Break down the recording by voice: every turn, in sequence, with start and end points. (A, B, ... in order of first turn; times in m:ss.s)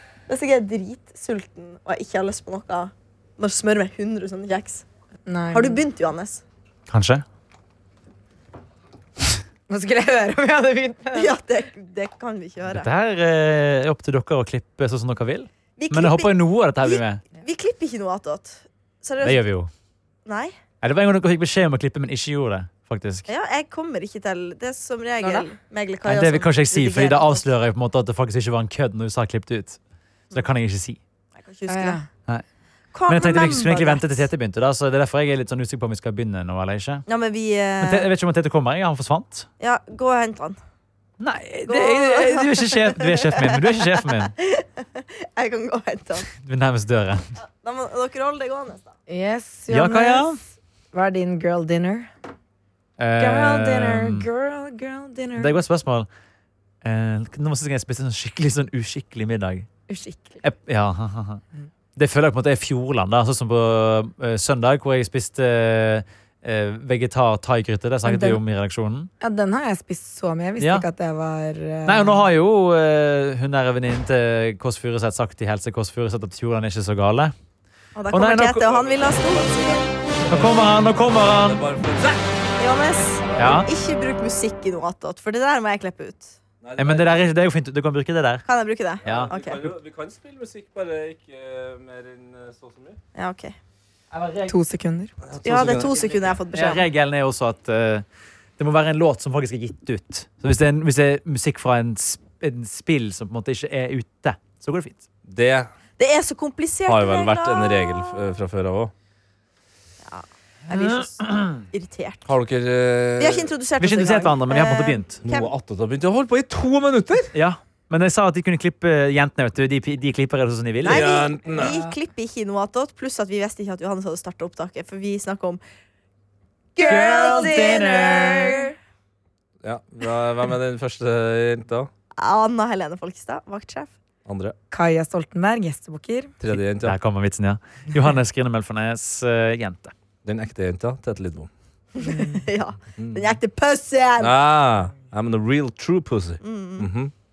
0:00.3-0:04.8 A
0:05.3-0:05.8 B
0:05.5-0:06.4 A
0:06.9-0:07.2 C
0:09.7-0:11.4 B
0:11.1-0:12.9 A
0:12.7-0:17.2 C
0:15.8-0:19.4 A
0:19.2-0:19.7 C
0:20.2-0:20.5 A
0:20.8-0:23.2 C
0:23.3-0:27.4 A
0:25.2-0:25.5 B
0:26.0-0:29.8 C
0:30.3-0:31.0 C
0:31.4-0:32.0 A
0:31.7-0:32.0 B
0:32.9-0:34.1 A
0:33.1-0:37.0 C
0:37.1-0:38.1 A
0:37.8-0:39.5 C
0:39.6-0:40.6 A
0:41.2-0:44.3 C
0:41.7-0:46.3 A
0:46.4-0:47.2 C
0:47.6-0:48.9 A
0:49.1-0:50.4 B
0:49.7-0:50.4 C
0:50.9-0:52.1 B
0:53.0-0:54.2 C
0:53.2-0:55.6 B
0:55.4-0:56.1 C
0:56.8-0:59.7 C
0:59.9-1:00.4 B
1:00.4-1:01.4 C
1:02.0-1:09.1 C
1:08.0-1:08.4 B
1:09.2-1:12.2 B
1:10.6-1:10.8 C
1:11.8-1:17.3 C
1:18.0-1:19.9 A
1:18.1-1:18.6 C
1:18.6-1:20.5 D
1:20.3-1:21.6 C
1:21.1-1:22.2 D
1:22.6-1:26.4 A
1:23.4-1:23.7 C
1:26.6-1:27.2 D
1:26.8-1:28.4 C
1:28.4-1:29.7 A
1:29.0-1:29.3 C
1:29.0-1:33.0 D
1:33.1-1:33.5 A
1:34.1-1:34.5 C
1:34.5-1:35.1 B
1:35.3-1:36.4 D
1:35.4-1:36.8 A
1:36.5-1:38.0 C
1:38.6-1:45.0 C
1:45.3-1:45.7 D
1:46.0-1:48.2 A
1:46.9-1:48.9 D
1:50.0-1:52.3 A
1:50.7-1:51.5 C
1:52.2-1:53.5 D
1:53.2-1:55.5 A
1:53.8-1:55.2 C
1:55.2-1:57.3 D
1:57.3-2:01.2 C
2:00.8-2:01.8 D
2:00.8-2:05.6 A
2:01.6-2:01.9 B
2:06.8-2:08.7 B
2:06.8-2:08.7 A
2:06.8-2:08.6 C
2:09.6-2:11.9 D
2:12.2-2:13.9 A
2:14.2-2:14.6 D
2:14.7-2:16.3 B
2:16.4-2:16.9 D
2:16.8-2:19.9 C
2:20.2-2:21.5 D
2:22.0-2:24.3 A
2:22.0-2:22.4 B
2:23.0-2:23.4 D
2:24.2-2:27.1 D
2:26.4-2:26.9 A